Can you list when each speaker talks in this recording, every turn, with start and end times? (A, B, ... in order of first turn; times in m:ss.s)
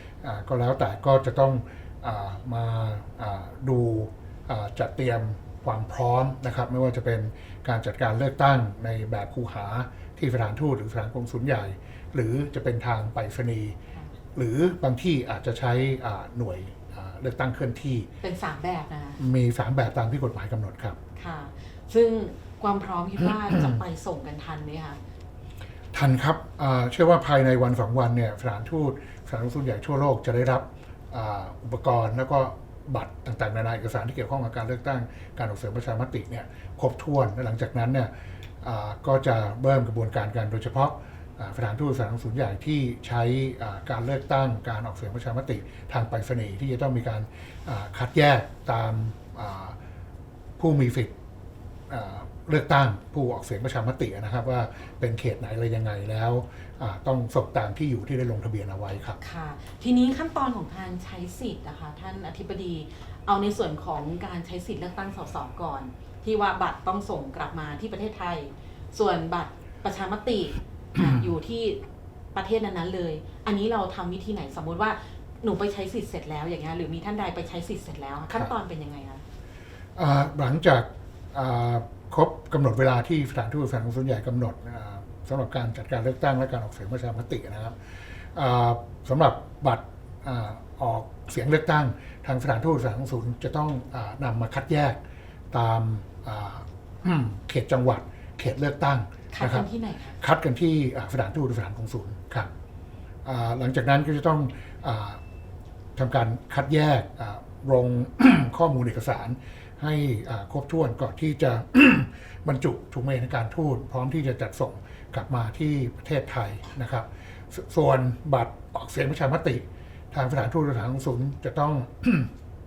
0:00.2-0:13.8 A
0:14.3-0:18.1 A
0:18.2-0:19.2 B
0:19.2-0:21.0 A
0:21.2-0:25.0 B
0:23.4-0:23.8 A
0:25.9-0:38.1 A
0:38.6-0:49.8 A
0:50.6-0:51.1 A
0:51.9-0:59.2 A
0:59.2-1:11.8 B
1:11.0-1:11.3 A
1:12.3-1:19.2 B
1:20.0-1:27.8 A
1:28.3-1:35.0 A
1:35.5-1:39.7 A
1:39.3-1:40.2 B
1:40.2-1:42.5 A
1:43.2-1:45.2 A
1:46.0-2:02.3 A